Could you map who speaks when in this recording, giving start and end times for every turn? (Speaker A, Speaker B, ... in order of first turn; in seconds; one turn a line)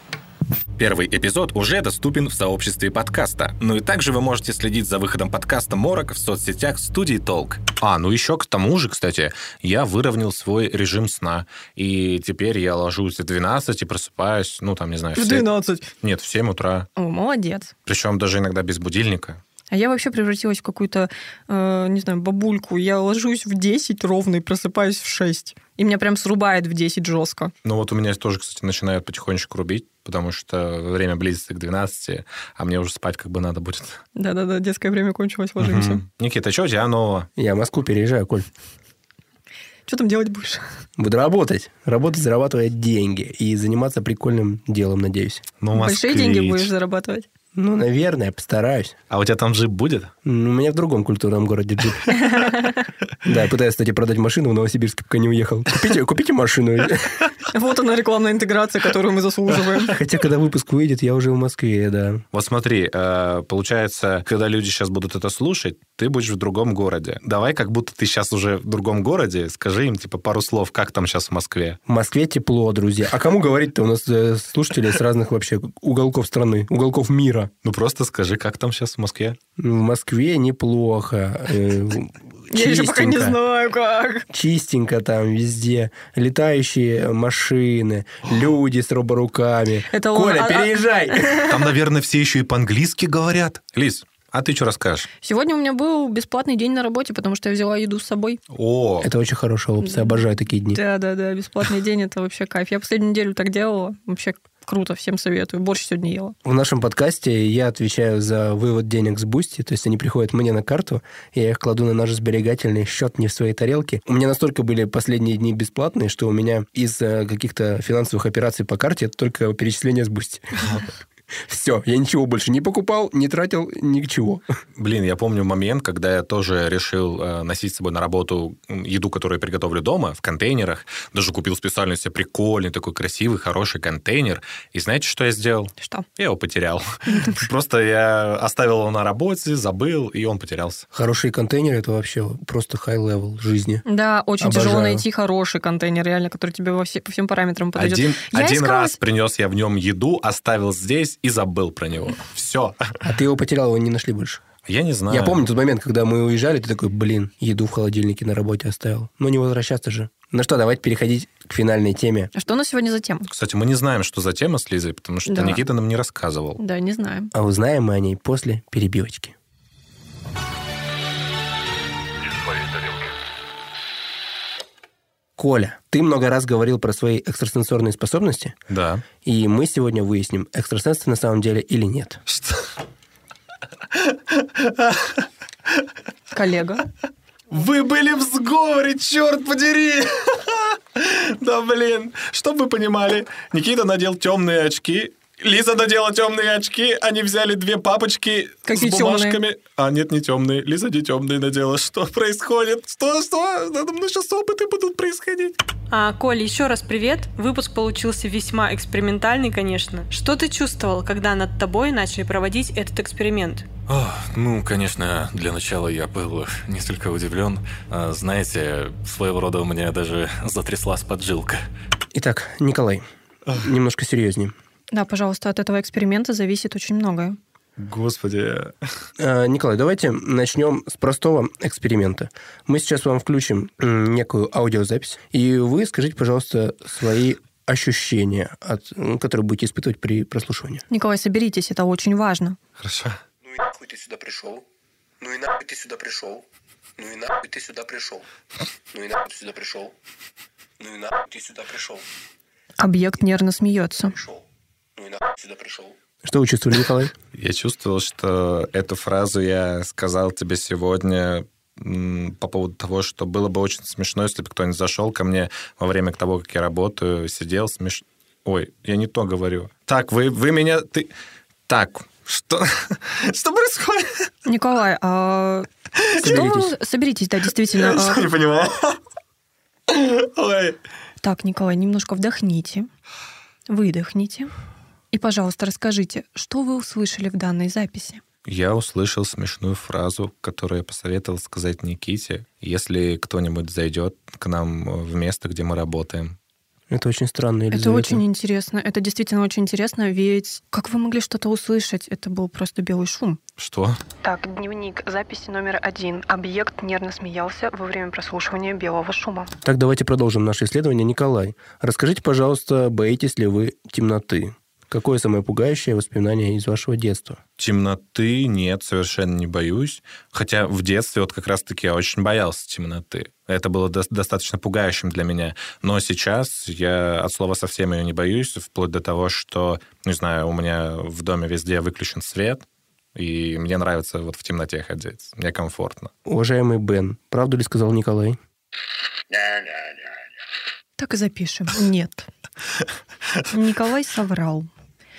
Speaker A: 0.8-15.4
Speaker B: 3.6-4.8
Speaker B: 6.2-7.4
Speaker C: 15.2-15.9
Speaker A: 16.0-16.9
Speaker C: 16.9-17.7
Speaker A: 17.9-19.4
Speaker C: 19.7-27.5
Speaker A: 27.6-34.0
Speaker C: 34.1-36.0
Speaker A: 35.6-37.3
Speaker D: 37.4-38.5
Speaker C: 39.9-40.6
Speaker D: 41.0-45.4
Speaker A: 45.6-46.7
Speaker C: 45.7-47.3
Speaker D: 47.5-48.9
Speaker A: 49.1-50.1
Speaker D: 50.2-52.4
Speaker C: 52.1-52.8
Speaker D: 53.2-57.2
Speaker C: 57.5-59.9
Speaker D: 59.9-62.2
Speaker A: 62.3-71.8
Speaker D: 71.9-77.5
Speaker A: 77.6-79.4
Speaker D: 79.6-83.4
Speaker C: 82.5-84.2
Speaker D: 84.3-91.4
Speaker C: 89.9-91.6
Speaker A: 91.5-95.1
Speaker C: 95.2-98.4
Speaker A: 98.5-99.1
Speaker D: 99.0-100.8
Speaker C: 99.8-106.3
Speaker D: 106.4-120.7
Speaker D: 121.5-124.4
Speaker A: 124.8-140.8
Speaker C: 135.8-136.0
Speaker C: 137.1-137.4
Speaker D: 140.9-143.8
Speaker C: 143.8-149.0
Speaker D: 144.4-145.0
Speaker A: 147.8-152.8
Speaker D: 153.0-154.4
Speaker A: 154.7-155.4
Speaker D: 155.1-162.3
Speaker C: 162.3-163.3
Speaker A: 163.3-166.6
Speaker C: 165.2-165.6
Speaker C: 166.6-167.3
Speaker D: 167.3-169.3
Speaker D: 175.4-178.5
Speaker A: 178.7-179.0
Speaker D: 179.2-182.2
Speaker A: 182.3-182.6
Speaker A: 183.9-185.2
Speaker C: 186.3-186.8
Speaker A: 187.5-205.6
Speaker C: 198.7-199.4
Speaker E: 205.9-213.7
Speaker B: 213.9-221.6
Speaker D: 222.1-223.0
Speaker D: 223.6-224.5
Speaker C: 224.9-227.4
Speaker A: 227.8-228.7
Speaker D: 229.2-240.8
Speaker C: 240.9-242.6
Speaker A: 242.8-243.2
Speaker D: 243.4-244.6
Speaker D: 245.2-246.4
Speaker D: 247.0-248.2
Speaker D: 248.9-249.9
Speaker D: 250.8-252.1
Speaker C: 252.8-254.2
Speaker D: 254.0-254.4
Speaker D: 254.9-257.1
Speaker A: 257.3-271.1
Speaker A: 271.7-274.3
Speaker C: 274.4-275.7
Speaker A: 276.0-276.4
Speaker D: 276.2-276.7
Speaker C: 276.2-278.2
Speaker A: 277.7-279.0
Speaker A: 279.9-280.8
Speaker C: 281.2-282.9
Speaker C: 283.7-284.5
Speaker C: 285.1-288.2
Speaker A: 288.4-296.4
Speaker D: 296.9-298.2
Speaker C: 297.7-303.4
Speaker A: 303.6-304.0
Speaker C: 304.2-309.5
Speaker D: 309.6-317.4
Speaker A: 317.6-336.1
Speaker D: 336.2-338.4
Speaker C: 341.0-342.3
Speaker C: 343.5-344.7